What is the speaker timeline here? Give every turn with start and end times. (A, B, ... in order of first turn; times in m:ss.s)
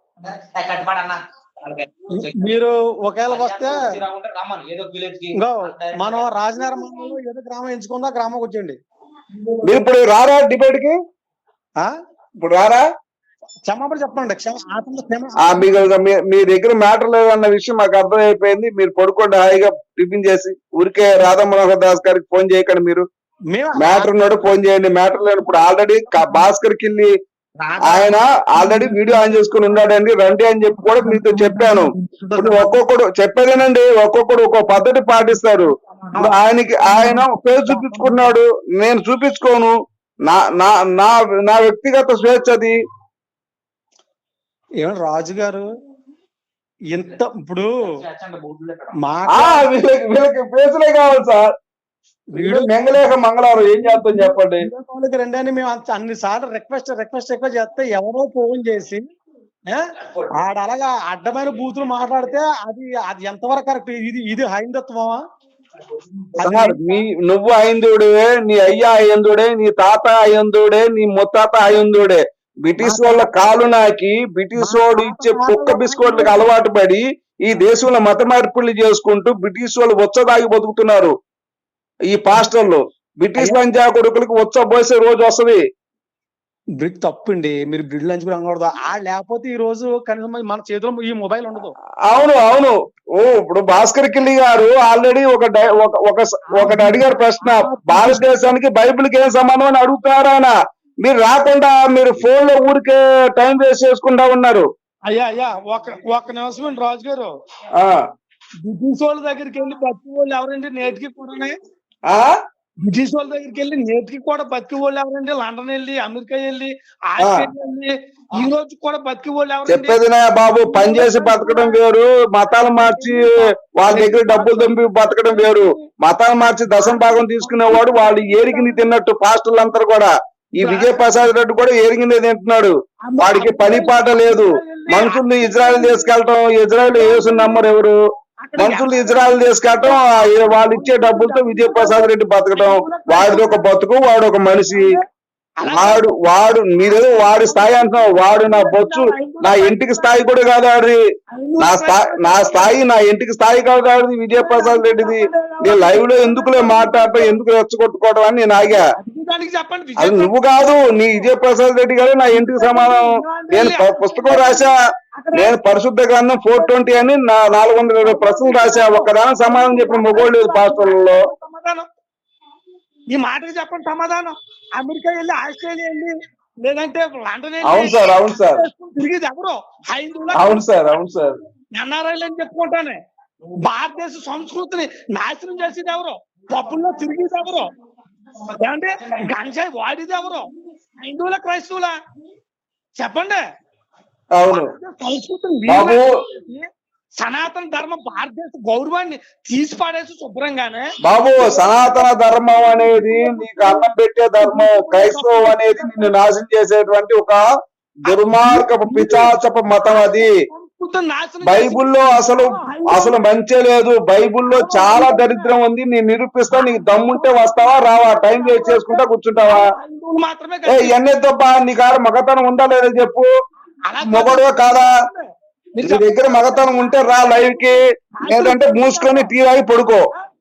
0:00.2-0:02.4 A
0:02.1-0:03.8 B
0:03.3-0:06.8 A
0:05.3-0:08.8 B
0:09.6-0:10.9 C
0:12.4-0:12.8 C
0:13.6-0:15.7 B
0:15.4-0:23.0 C
0:23.5-0:24.0 B
0:23.8-0:27.1 C
0:26.2-0:26.4 B
0:27.6-0:28.2 A
0:27.8-0:39.7 C
0:28.6-0:29.4 B
0:30.8-0:32.8 B
0:36.1-0:38.3 B
0:40.3-0:42.8 C
0:44.8-0:45.6 B
0:46.9-0:47.9 B
0:47.8-0:48.9 A
0:49.0-0:49.7 B
0:49.3-0:51.5 C
0:52.3-0:53.0 B
0:52.4-0:54.7 C
0:53.6-0:59.0 B
1:00.3-1:05.2 B
1:06.4-1:07.0 B
1:06.4-1:21.1 C
1:14.6-1:16.5 B
1:22.1-1:25.6 C
1:26.8-1:31.7 B
1:32.1-1:40.5 C
1:36.5-1:38.5 B
1:41.0-1:44.6 C
1:45.1-1:47.3 B
1:48.6-1:51.5 B
1:52.8-2:00.0 B
1:57.2-1:57.5 C
1:59.7-2:17.9 C
2:00.6-2:01.8 B
2:02.5-2:03.4 B
2:03.9-2:05.8 B
2:06.8-2:08.9 B
2:10.6-2:11.2 B
2:13.1-2:16.1 B
2:16.9-2:17.6 B
2:18.5-2:18.9 A
2:18.6-2:24.9 C
2:18.9-2:23.6 B
2:24.7-2:25.0 B
2:25.6-2:26.0 A
2:25.7-2:31.0 C
2:26.8-2:30.2 B
2:31.3-2:32.8 B
2:31.6-2:38.8 C
2:34.3-2:37.4 B
2:38.6-2:40.3 B
2:40.0-2:44.8 C
2:40.9-2:41.2 B
2:42.3-2:45.5 B
2:45.3-2:51.2 C
2:46.6-2:47.0 B
2:48.0-2:51.8 B
2:53.2-2:56.1 B
2:56.6-3:00.6 B
2:57.6-2:58.6 C
3:00.3-3:01.4 C
3:01.8-3:02.9 B
3:03.7-3:07.7 B
3:06.6-3:06.9 A
3:08.6-3:10.4 B
3:09.0-3:09.3 A
3:11.0-3:11.9 B
3:13.0-3:13.4 B
3:14.3-3:14.7 C
3:14.5-3:16.6 B
3:15.7-3:16.1 C
3:17.2-3:20.8 B
3:21.0-3:27.4 C
3:21.4-3:26.1 B
3:28.0-3:30.3 C
3:28.1-3:33.2 B
3:31.4-3:39.7 C
3:34.4-3:35.5 B
3:36.5-3:40.9 B
3:40.7-3:43.3 C
3:44.0-3:45.2 B
3:44.0-3:44.9 C
3:45.8-3:49.3 B
3:45.8-3:50.1 C